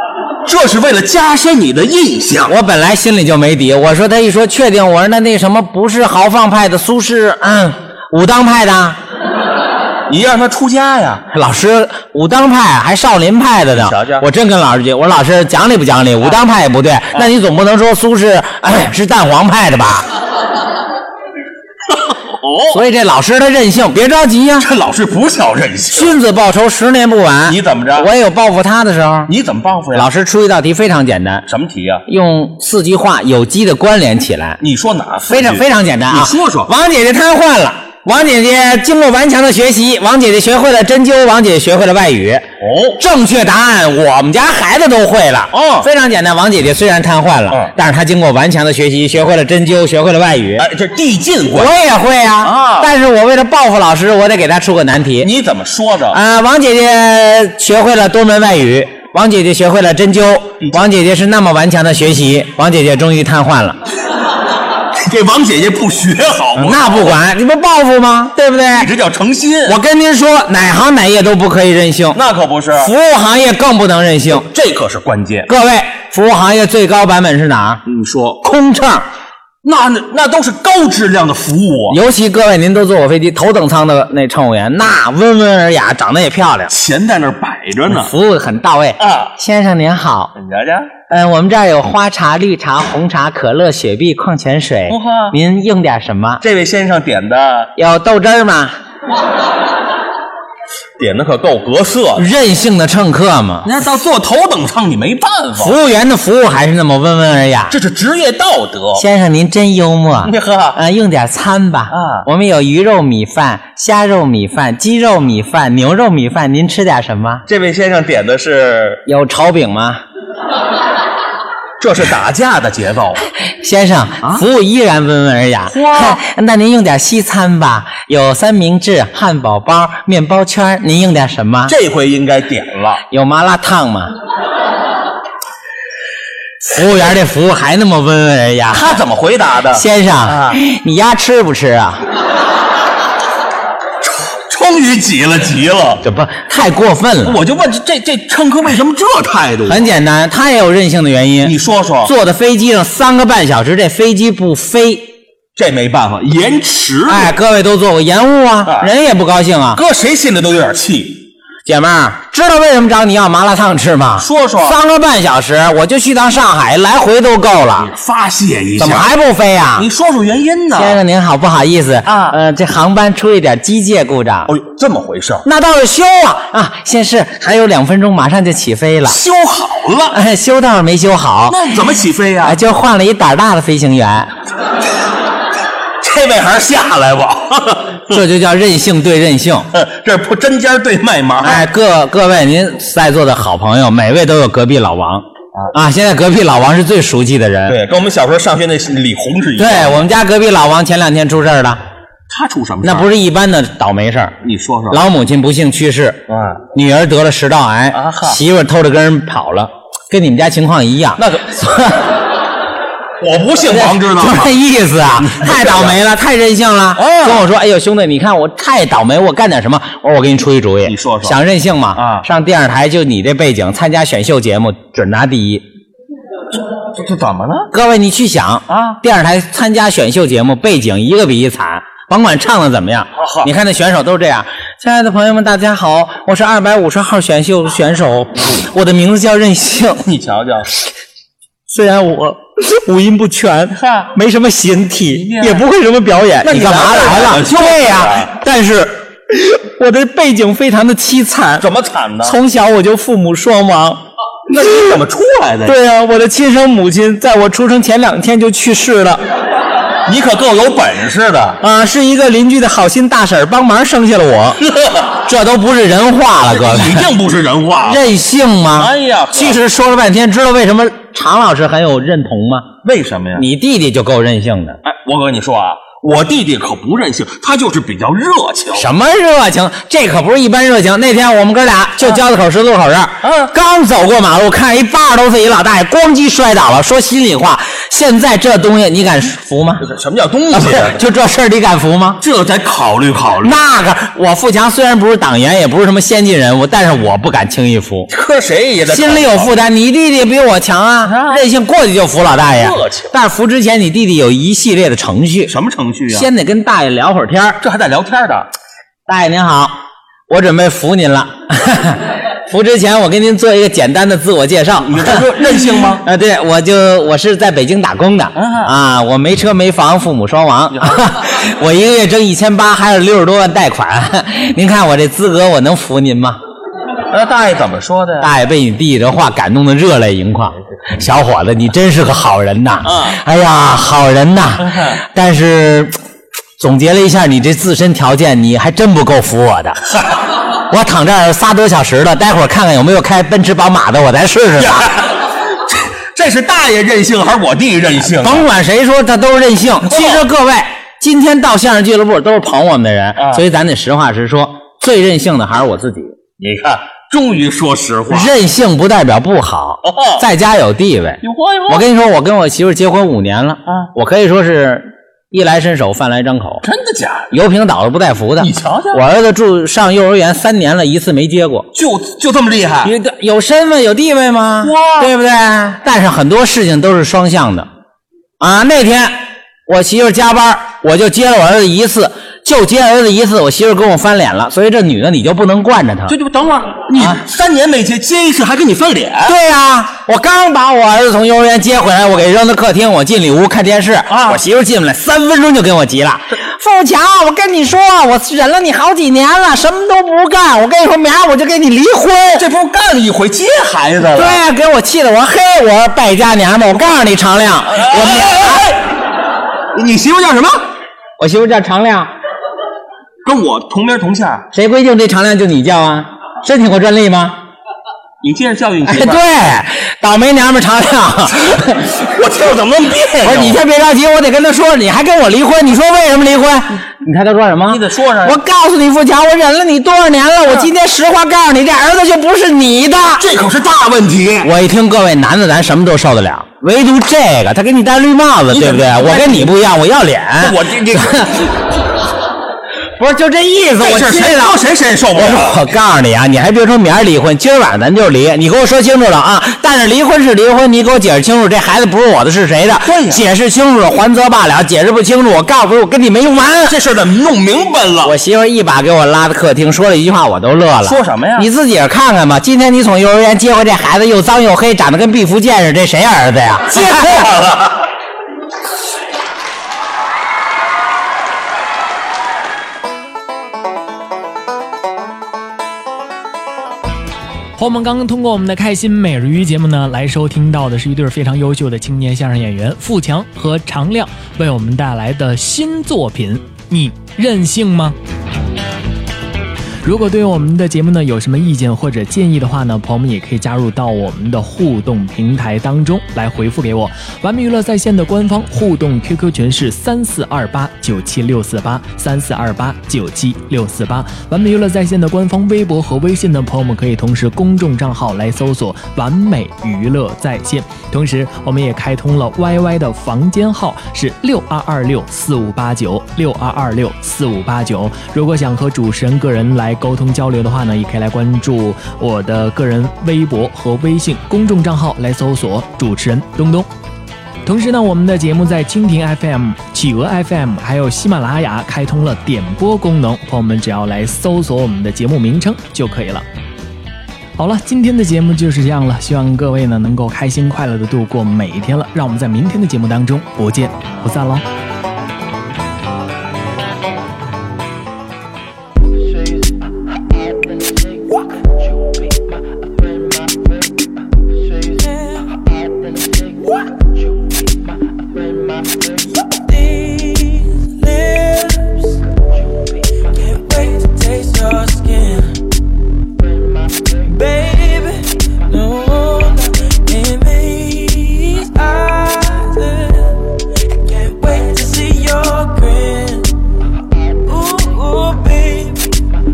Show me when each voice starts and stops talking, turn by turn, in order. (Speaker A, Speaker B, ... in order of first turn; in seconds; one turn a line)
Speaker A: 0.4-2.5
Speaker B: 2.5-9.0
Speaker A: 10.1-11.2
Speaker B: 11.3-20.1
Speaker A: 13.7-14.2
Speaker A: 21.9-22.8
Speaker B: 22.7-24.7
Speaker A: 24.6-26.1
Speaker B: 25.9-29.3
Speaker A: 27.5-28.1
Speaker A: 29.3-30.1
Speaker B: 29.9-31.4
Speaker A: 31.5-32.0
Speaker B: 32.0-34.6
Speaker A: 34.6-36.7
Speaker B: 35.3-50.7
Speaker A: 42.6-43.0
Speaker A: 45.5-45.9
Speaker A: 50.6-51.7
Speaker B: 51.5-55.3
Speaker A: 52.4-52.9
Speaker A: 55.2-56.2
Speaker B: 56.1-63.8
Speaker A: 65.0-67.2
Speaker B: 66.5-68.9
Speaker A: 68.7-69.8
Speaker B: 69.6-72.2
Speaker A: 72.1-72.9
Speaker B: 72.8-74.5
Speaker A: 74.4-75.5
Speaker B: 75.5-77.8
Speaker A: 77.8-78.4
Speaker B: 78.4-79.0
Speaker A: 79.6-82.0
Speaker B: 81.9-86.7
Speaker A: 86.7-88.1
Speaker B: 87.9-90.3
Speaker A: 89.0-89.3
Speaker A: 90.3-90.9
Speaker B: 91.1-96.4
Speaker A: 94.9-95.3
Speaker A: 96.4-97.7
Speaker B: 97.8-98.8
Speaker A: 101.0-102.2
Speaker B: 102.2-103.7
Speaker A: 103.6-105.7
Speaker B: 105.6-107.8
Speaker A: 107.7-109.0
Speaker B: 109.0-117.4
Speaker A: 110.2-110.8
Speaker A: 111.9-112.2
Speaker A: 117.5-119.0
Speaker B: 119.0-120.0
Speaker A: 121.8-123.2
Speaker B: 123.6-131.7
Speaker A: 125.7-126.2
Speaker A: 131.7-133.0
Speaker B: 133.1-134.1
Speaker B: 136.6-139.0
Speaker A: 138.7-140.6
Speaker B: 139.7-142.0
Speaker A: 144.0-146.0
Speaker B: 146.0-147.4
Speaker A: 147.2-149.8
Speaker B: 149.7-155.1
Speaker A: 151.4-152.1
Speaker A: 155.6-157.3
Speaker B: 157.1-159.8
Speaker A: 159.7-161.2
Speaker B: 161.6-167.9
Speaker A: 164.2-164.8
Speaker A: 167.8-169.1
Speaker B: 168.8-169.9
Speaker A: 169.8-171.0
Speaker B: 170.7-174.5
Speaker A: 172.1-172.3
Speaker A: 174.5-175.4
Speaker B: 175.4-179.2
Speaker A: 179.1-180.2
Speaker B: 180.1-181.6
Speaker A: 181.5-182.6
Speaker B: 182.4-184.3
Speaker A: 186.0-188.2
Speaker B: 188.1-189.7
Speaker A: 189.7-191.6
Speaker B: 191.4-197.8
Speaker A: 197.7-200.1
Speaker B: 199.6-201.8
Speaker A: 202.3-203.1
Speaker B: 202.8-204.4
Speaker A: 204.4-205.0
Speaker B: 204.9-212.1
Speaker A: 206.3-206.6
Speaker A: 207.9-208.4
Speaker A: 211.2-211.5
Speaker A: 213.2-214.5
Speaker B: 213.7-225.6
Speaker A: 215.2-216.0
Speaker A: 217.0-217.4
Speaker A: 220.8-221.3
Speaker A: 221.9-222.2
Speaker A: 226.9-227.7
Speaker B: 227.7-240.0
Speaker A: 228.7-229.0
Speaker A: 233.2-233.5
Speaker A: 240.0-240.7
Speaker B: 241.7-251.7
Speaker A: 243.7-244.1
Speaker A: 245.1-245.6
Speaker A: 246.4-248.3
Speaker A: 251.6-252.3
Speaker B: 252.2-254.0
Speaker A: 254.5-255.8
Speaker B: 254.6-255.0
Speaker B: 255.6-259.2
Speaker A: 260.1-261.6
Speaker B: 261.6-264.6
Speaker A: 264.6-265.1
Speaker B: 265.2-267.1
Speaker A: 266.4-268.0
Speaker B: 267.8-272.7
Speaker A: 268.8-269.6
Speaker A: 272.8-273.4
Speaker B: 273.3-274.8
Speaker A: 274.8-278.9
Speaker B: 278.7-289.8
Speaker A: 283.2-283.5
Speaker A: 289.8-291.0
Speaker B: 290.5-292.2
Speaker A: 292.2-293.6
Speaker B: 293.4-298.1
Speaker A: 298.1-299.5
Speaker B: 298.9-305.5
Speaker A: 301.0-301.4
Speaker A: 302.4-303.1
Speaker A: 305.5-306.3
Speaker B: 306.1-307.6
Speaker A: 307.6-308.5
Speaker B: 309.1-309.8
Speaker B: 310.3-315.3
Speaker A: 314.8-316.0
Speaker B: 315.9-326.4
Speaker A: 318.4-318.7
Speaker A: 320.7-321.0
Speaker A: 327.1-328.3
Speaker B: 328.2-336.0
Speaker A: 332.9-333.1
Speaker A: 334.7-334.9
Speaker B: 336.6-339.8
Speaker B: 340.7-344.9
Speaker A: 344.6-348.5
Speaker B: 348.1-356.1
Speaker A: 349.9-350.2
Speaker A: 353.2-353.4
Speaker A: 356.4-358.3
Speaker B: 358.1-366.6
Speaker A: 359.8-360.2
Speaker A: 361.2-361.8
Speaker A: 366.6-367.3
Speaker B: 367.3-371.7
Speaker A: 368.4-369.0
Speaker A: 371.7-372.9
Speaker B: 372.8-377.7
Speaker A: 374.6-375.1
Speaker B: 378.4-386.1
Speaker A: 386.1-389.3
Speaker B: 386.9-387.2
Speaker B: 389.2-402.4
Speaker A: 394.1-394.4
Speaker A: 402.3-404.4
Speaker B: 404.1-408.7
Speaker A: 407.7-408.8
Speaker A: 409.7-410.6
Speaker B: 411.2-412.1
Speaker A: 413.2-414.4
Speaker B: 414.5-417.4
Speaker A: 418.2-419.2
Speaker B: 418.9-421.9
Speaker A: 421.9-423.6
Speaker B: 423.2-433.3
Speaker A: 427.7-428.4
Speaker A: 433.2-434.5
Speaker B: 434.4-441.4
Speaker A: 438.5-439.5
Speaker A: 440.4-441.3
Speaker B: 443.0-444.6
Speaker A: 443.8-445.6
Speaker B: 445.1-456.8
Speaker A: 452.8-453.2
Speaker A: 456.7-458.1
Speaker B: 458.0-467.3
Speaker A: 460.8-461.5
Speaker A: 466.7-467.9
Speaker C: 477.6-487.9
Speaker C: 489.8-526.7
Speaker C: 527.4-536.2
Speaker C: 537.4-544.4
Speaker D: 554.7-555.4
Speaker D: 556.4-556.7
Speaker D: 558.8-562.0
Speaker D: 563.0-565.4
Speaker D: 567.0-576.3
Speaker D: 577.2-578.9